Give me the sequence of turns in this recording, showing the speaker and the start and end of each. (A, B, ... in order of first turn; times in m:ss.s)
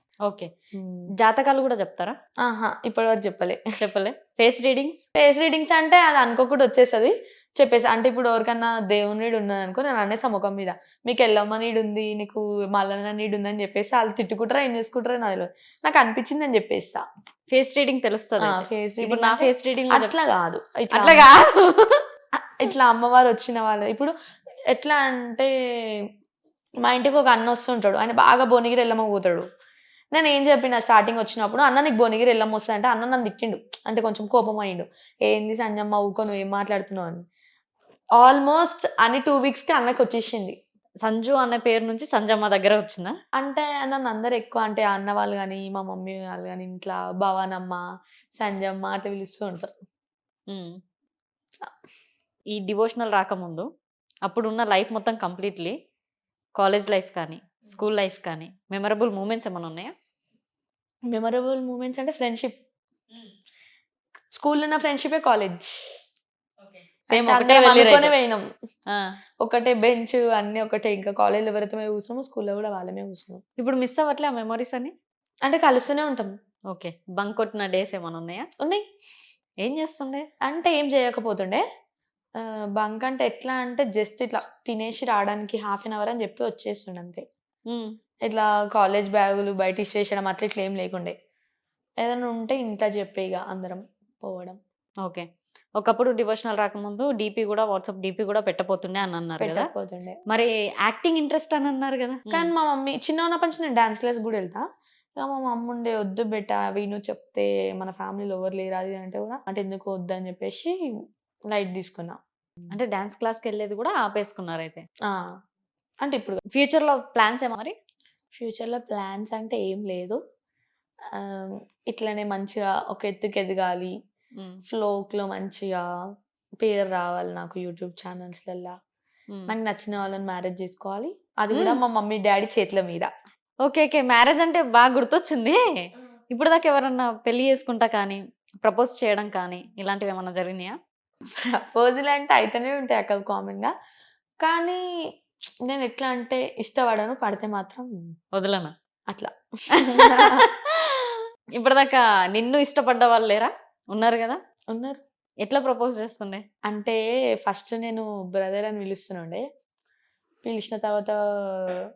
0:00.7-0:01.1 A
0:01.2-0:02.2 B
0:02.4-0:03.6 A
0:03.8-0:05.0 B
0:05.2-0:17.0 A
0:17.5-0:20.1 B
0:18.4-0:21.3 A
0:20.9-0:22.0 B
0:22.6-0:24.1 A
0:24.7-0:25.5 A
0:26.8-0:29.4 A
0:30.2-0:37.2 A
0:38.2-0:40.6 A
0:41.0-0:43.1 B
0:43.4-0:47.8 A
0:48.4-0:49.7 A
0:50.5-0:50.8 B
0:52.5-0:53.7 B
0:54.2-0:55.8 B
0:56.6-0:59.9 B
1:01.1-1:02.6 A
1:04.3-1:06.0 A
1:06.6-1:08.2 B
1:07.1-1:08.5 A
1:08.9-1:09.2 B
1:09.4-1:13.4 A
1:13.6-1:14.9 B
1:15.4-1:16.3 A
1:16.7-1:18.5 B
1:19.6-1:20.3 B
1:20.5-1:21.6 A
1:22.4-1:27.2 A
1:27.7-1:27.9 B
1:28.3-1:31.1 A
1:32.0-1:34.6 A
1:35.8-1:39.7 B
1:39.4-1:40.2 A
1:40.3-1:42.5 B
1:42.3-1:44.6 A
1:45.2-1:50.7 A
1:51.5-1:52.2 A
1:52.7-1:54.8 B
1:56.0-1:56.4 A
1:56.5-1:57.8 B
1:58.4-2:00.2 A
2:01.2-2:03.9 A
2:04.7-2:05.9 A
2:06.6-2:08.8 A
2:09.5-2:13.1 A
2:11.5-2:11.8 B
2:13.6-2:15.6 B
2:16.3-2:20.8 B
2:21.4-2:23.7 A
2:24.4-2:24.8 A
2:25.7-2:27.9 A
2:28.3-2:28.7 B
2:29.1-2:30.5 A
2:29.8-2:34.4 B
2:34.7-2:35.0 A
2:35.4-2:36.4 B
2:36.7-2:39.4 A
2:40.4-2:41.8 A